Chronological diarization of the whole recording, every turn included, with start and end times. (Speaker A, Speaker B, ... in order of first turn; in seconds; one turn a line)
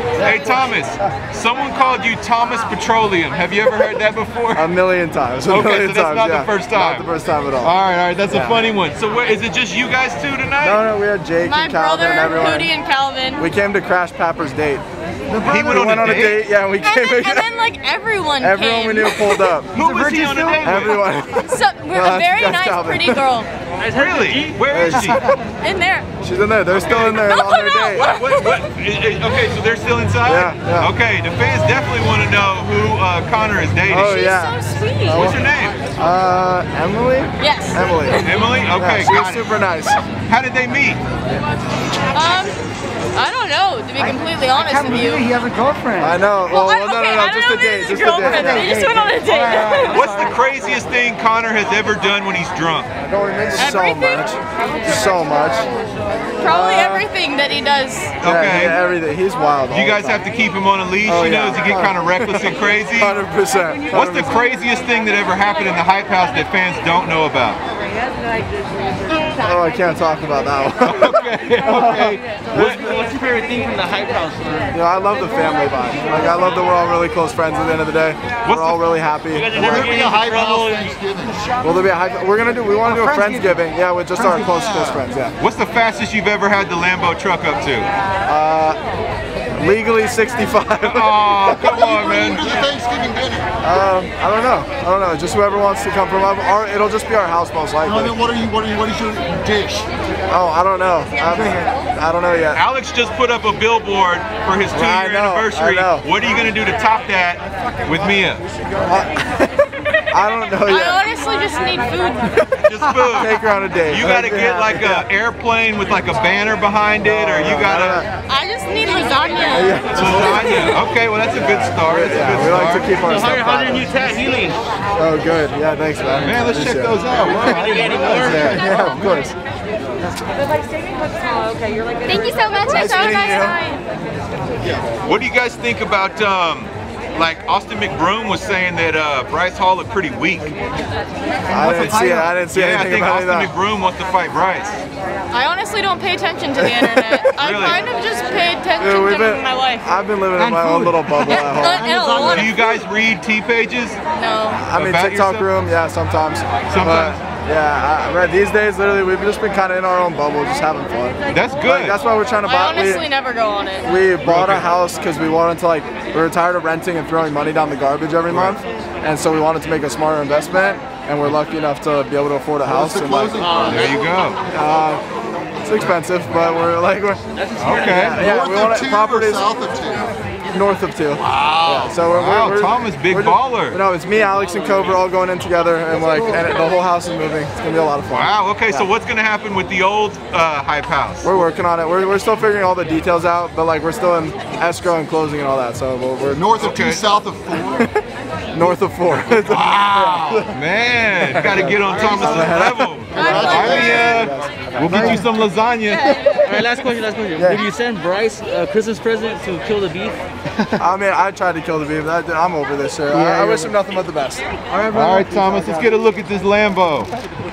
Speaker A: 0.2-1.1
Speaker B: 0.2-4.7
Speaker A: 4.5-7.8
Speaker B: 5.5-7.1
Speaker B: 7.6-10.8
Speaker A: 8.3-8.6
Speaker A: 10.6-12.7
Speaker C: 11.4-13.4
Speaker A: 13.4-14.8
Speaker B: 15.3-16.5
Speaker A: 15.4-17.5
Speaker C: 16.8-19.6
Speaker A: 18.4-19.8
Speaker B: 19.7-21.1
Speaker D: 19.8-20.8
Speaker A: 20.6-23.3
Speaker C: 21.5-23.5
Speaker E: 23.8-25.2
Speaker B: 23.9-25.2
Speaker A: 24.7-25.4
Speaker C: 25.6-26.1
Speaker A: 26.2-28.0
Speaker B: 26.7-34.2
Speaker C: 27.3-28.7
Speaker A: 30.2-30.9
Speaker A: 33.9-35.4
Speaker C: 34.0-35.3
Speaker B: 35.1-35.9
Speaker A: 36.0-40.0
Speaker C: 37.4-38.5
Speaker B: 38.2-39.5
Speaker B: 40.3-41.0
Speaker C: 42.1-42.6
Speaker C: 43.1-45.3
Speaker D: 44.0-46.2
Speaker A: 46.0-48.8
Speaker C: 46.5-50.0
Speaker D: 48.1-49.9
Speaker B: 49.8-52.9
Speaker D: 53.1-53.7
Speaker A: 53.4-55.7
Speaker C: 53.6-54.3
Speaker C: 56.4-58.2
Speaker A: 56.4-57.1
Speaker B: 58.2-58.8
Speaker A: 58.2-60.2
Speaker B: 59.7-63.2
Speaker A: 61.0-64.4
Speaker B: 63.9-67.6
Speaker A: 69.4-72.9
Speaker B: 70.8-72.8
Speaker E: 72.6-74.7
Speaker A: 74.7-80.0
Speaker B: 78.4-78.8
Speaker E: 79.3-81.0
Speaker F: 79.5-81.5
Speaker A: 81.6-85.4
Speaker D: 82.9-83.6
Speaker F: 84.2-85.0
Speaker B: 85.4-87.9
Speaker A: 88.3-88.8
Speaker A: 89.6-91.7
Speaker B: 90.8-92.5
Speaker F: 91.7-93.5
Speaker A: 93.6-98.2
Speaker F: 97.8-99.9
Speaker A: 100.3-102.6
Speaker F: 101.2-101.7
Speaker B: 102.5-108.4
Speaker A: 104.7-106.1
Speaker A: 108.9-111.0
Speaker C: 110.7-112.3
Speaker A: 112.3-115.1
Speaker B: 112.7-118.0
Speaker A: 117.0-118.1
Speaker C: 118.3-120.8
Speaker A: 119.5-120.6
Speaker B: 119.9-123.0
Speaker A: 121.3-124.1
Speaker E: 123.0-124.6
Speaker A: 125.0-127.6
Speaker B: 126.2-128.9
Speaker E: 127.2-128.6
Speaker A: 128.2-129.3
Speaker C: 132.1-133.8
Speaker A: 132.7-133.6
Speaker B: 135.0-140.6
Speaker D: 141.5-142.4
Speaker A: 141.5-143.5
Speaker B: 141.8-144.8
Speaker C: 145.3-149.8
Speaker A: 146.6-147.6
Speaker B: 147.4-147.8
Speaker A: 148.8-152.0
Speaker E: 150.4-152.6
Speaker C: 151.2-152.8
Speaker B: 152.2-154.0
Speaker C: 154.2-154.7
Speaker A: 154.6-163.1
Speaker B: 154.7-155.5
Speaker B: 156.7-157.2
Speaker B: 161.3-162.0
Speaker C: 162.4-163.9
Speaker A: 163.8-173.6
Speaker B: 164.2-164.7
Speaker B: 168.3-168.6
Speaker F: 172.7-174.3
Speaker B: 173.6-174.4
Speaker A: 174.5-175.0
Speaker A: 175.6-177.2
Speaker E: 177.3-178.3
Speaker B: 177.6-178.2
Speaker A: 177.8-179.6
Speaker F: 178.2-180.2
Speaker A: 180.5-188.8
Speaker F: 181.2-182.0
Speaker B: 182.1-183.8
Speaker E: 184.3-185.0
Speaker B: 188.1-191.4
Speaker A: 191.2-196.5
Speaker F: 196.3-197.7
Speaker B: 196.6-197.0
Speaker A: 197.7-198.0
Speaker A: 198.5-200.6
Speaker B: 199.4-206.9
Speaker A: 201.2-205.3
Speaker F: 203.1-204.0
Speaker C: 203.1-204.3
Speaker C: 205.9-206.4
Speaker E: 206.4-210.2
Speaker A: 207.4-207.7
Speaker A: 210.8-214.5
Speaker D: 213.4-213.7
Speaker E: 214.7-215.8
Speaker B: 214.9-217.1
Speaker A: 215.5-215.8